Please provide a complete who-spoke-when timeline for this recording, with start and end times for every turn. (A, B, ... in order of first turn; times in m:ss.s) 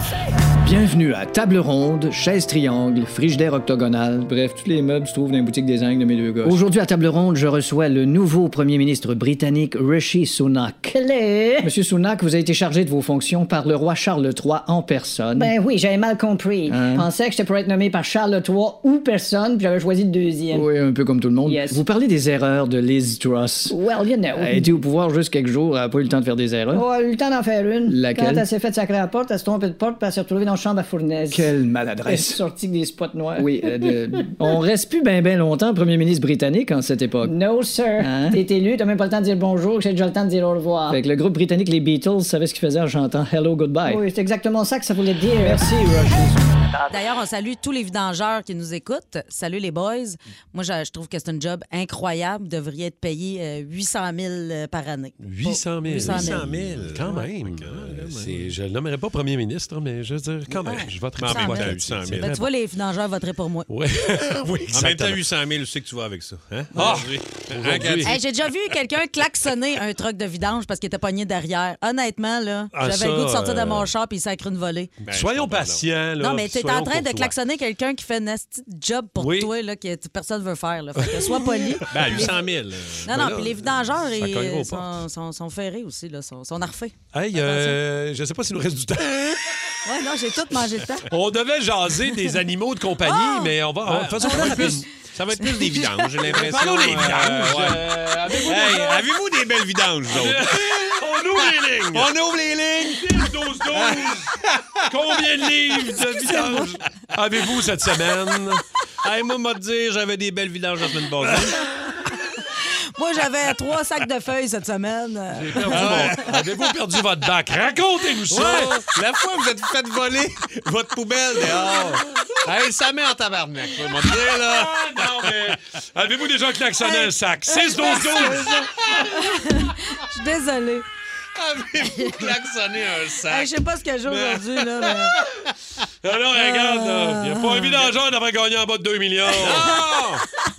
0:00.6-0:10.9 A
0:10.9-0:11.7 B
0:11.6-0:15.5 A
0:15.4-0:20.7 B
0:16.7-0:17.1 A
0:20.5-0:23.8 A
0:21.5-0:21.8 B
0:23.7-0:24.8 B
0:24.4-0:26.8 A
0:26.7-0:31.5 B
0:27.9-0:28.5 A
0:31.3-0:32.4 A
0:32.1-0:34.5 B
0:33.3-0:37.4 A
0:37.2-0:41.0 B
0:38.0-0:38.4 A
0:40.9-0:44.0 A
0:43.9-0:46.3 B
0:45.4-0:46.4 A
0:46.9-0:56.5 C
0:55.2-1:02.5 D
0:55.9-0:58.5 E
1:00.7-1:03.7 C
1:01.2-1:02.4 E
1:03.7-1:05.2 D
1:04.6-1:08.2 E
1:06.7-1:08.2 D
1:08.0-1:14.9 C
1:12.7-1:13.9 D
1:15.0-1:17.4 D
1:15.1-1:15.9 E
1:16.2-1:22.4 C
1:19.2-1:19.5 D
1:21.0-1:22.3 D
1:21.9-1:23.1 E
1:23.0-1:27.8 C
1:23.1-1:25.0 D
1:27.1-1:29.6 D
1:29.8-1:31.1 C
1:31.1-1:34.9 D
1:33.1-1:33.5 C
1:33.9-1:41.0 E
1:34.2-1:34.8 C
1:36.2-1:39.1 D
1:40.1-1:42.1 D
1:41.9-1:46.5 E
1:42.8-1:48.6 D
1:46.3-1:46.6 C
1:49.0-1:51.6 E
1:52.7-1:56.0 C
1:55.3-1:58.9 D
1:55.7-1:56.6 E
1:58.3-2:05.3 E
2:04.0-2:08.9 D
2:06.9-2:10.8 C
2:07.8-2:09.1 E
2:11.4-2:13.5 E
2:11.9-2:12.3 C
2:13.3-2:15.2 C
2:14.1-2:15.5 E
2:16.0-2:19.9 D
2:16.4-2:17.8 C
2:19.3-2:20.2 E